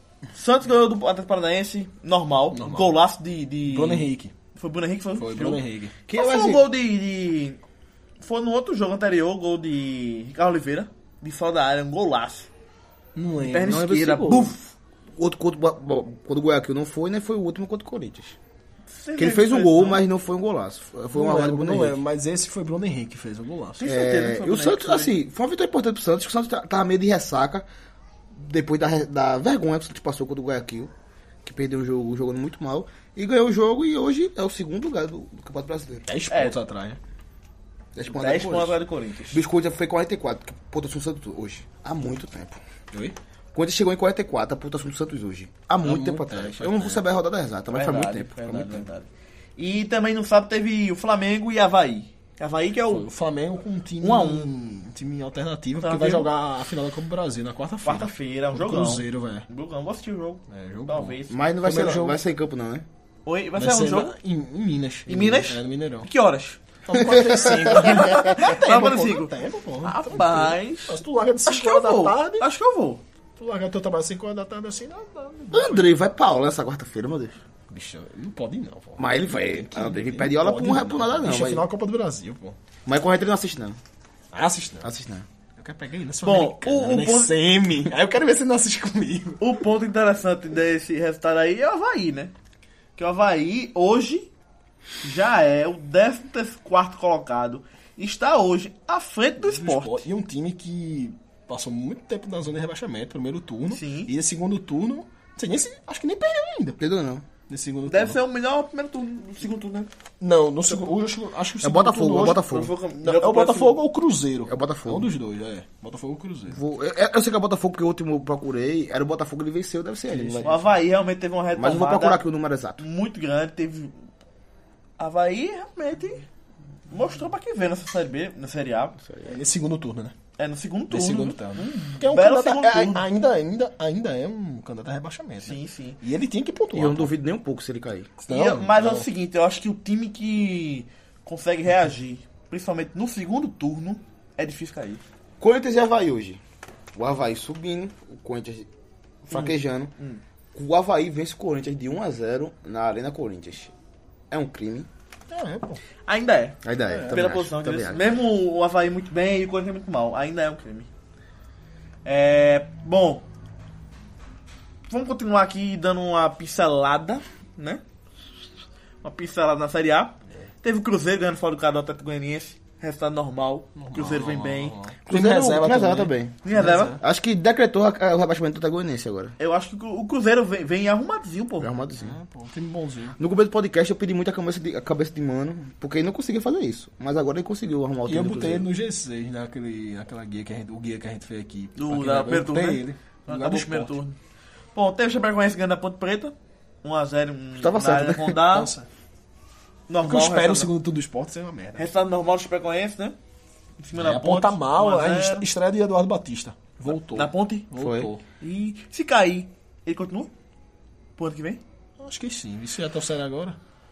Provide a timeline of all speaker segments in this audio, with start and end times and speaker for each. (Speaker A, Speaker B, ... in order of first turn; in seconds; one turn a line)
Speaker A: 0.3-7.6
Speaker B: 2.5-3.0
Speaker B: 3.6-4.3
Speaker B: 5.2-6.0
Speaker C: 6.1-6.7
Speaker A: 8.2-12.5
Speaker B: 13.2-14.1
Speaker A: 13.4-14.7
Speaker C: 13.7-14.5
Speaker C: 15.2-18.4
Speaker A: 18.9-20.0
Speaker C: 19.2-22.0
Speaker B: 21.1-23.9
Speaker A: 23.8-25.2
Speaker C: 23.9-27.7
Speaker C: 28.3-30.9
Speaker C: 31.4-36.1
Speaker B: 36.1-37.0
Speaker A: 36.3-36.6
Speaker C: 38.0-38.8
Speaker A: 38.1-39.4
Speaker C: 39.3-42.6
Speaker C: 43.5-48.5
Speaker B: 45.8-47.0
Speaker A: 47.7-53.1
Speaker B: 48.5-48.8
Speaker B: 52.9-59.5
Speaker A: 54.0-54.5
Speaker A: 55.8-56.3
Speaker A: 57.8-61.4
Speaker B: 60.5-62.2
Speaker C: 61.3-62.9
Speaker A: 63.3-64.2
Speaker B: 63.6-66.1
Speaker A: 65.1-66.6
Speaker B: 66.9-72.5
Speaker C: 67.1-68.0
Speaker A: 67.6-69.3
Speaker A: 69.8-73.0
Speaker B: 73.4-75.9
Speaker C: 75.5-77.4
Speaker B: 77.7-82.6
Speaker C: 79.0-81.7
Speaker C: 82.9-83.8
Speaker B: 84.3-84.9
Speaker C: 84.8-85.3
Speaker B: 85.6-89.5
Speaker A: 86.2-87.3
Speaker A: 89.4-92.3
Speaker A: 93.0-94.3
Speaker A: 95.0-100.0
Speaker B: 99.4-106.8
Speaker A: 103.7-104.1
Speaker C: 106.8-107.3
Speaker B: 107.5-108.2
Speaker A: 107.9-109.9
Speaker B: 110.2-116.6
Speaker C: 111.6-112.7
Speaker A: 112.2-113.8
Speaker C: 114.5-115.1
Speaker C: 116.5-120.5
Speaker B: 120.1-120.6
Speaker A: 120.4-122.2
Speaker C: 121.5-122.8
Speaker A: 122.8-124.0
Speaker A: 125.0-126.3
Speaker A: 126.9-129.0
Speaker C: 129.0-129.4
Speaker B: 129.2-130.2
Speaker A: 130.4-133.0
Speaker B: 130.9-137.1
Speaker A: 135.4-136.0
Speaker C: 136.7-138.1
Speaker B: 138.2-139.1
Speaker A: 138.3-145.0
Speaker C: 145.4-146.4
Speaker C: 146.9-148.7
Speaker C: 149.2-149.9
Speaker A: 149.3-150.2
Speaker C: 150.6-153.7
Speaker C: 154.3-154.9
Speaker B: 155.3-155.8
Speaker A: 156.1-160.9
Speaker C: 156.6-158.1
Speaker B: 156.9-157.2
Speaker A: 162.1-163.3
Speaker A: 164.9-167.8
Speaker A: 169.0-174.8
Speaker B: 173.8-177.0
Speaker C: 175.1-176.4
Speaker A: 176.4-177.0
Speaker C: 177.0-179.3
Speaker A: 179.4-181.7
Speaker C: 181.6-182.2
Speaker B: 182.0-183.2
Speaker C: 183.2-188.7
Speaker B: 188.1-194.0
Speaker A: 191.8-194.2
Speaker A: 194.8-198.7
Speaker C: 197.6-198.4
Speaker B: 198.4-198.9
Speaker A: 199.9-200.7
Speaker B: 200.0-201.9
Speaker A: 201.8-203.2
Speaker A: 203.8-205.5
Speaker B: 203.9-208.2
Speaker A: 206.9-207.7
Speaker C: 207.8-208.1
Speaker A: 208.4-210.3
Speaker A: 211.2-211.6
Speaker B: 212.0-213.6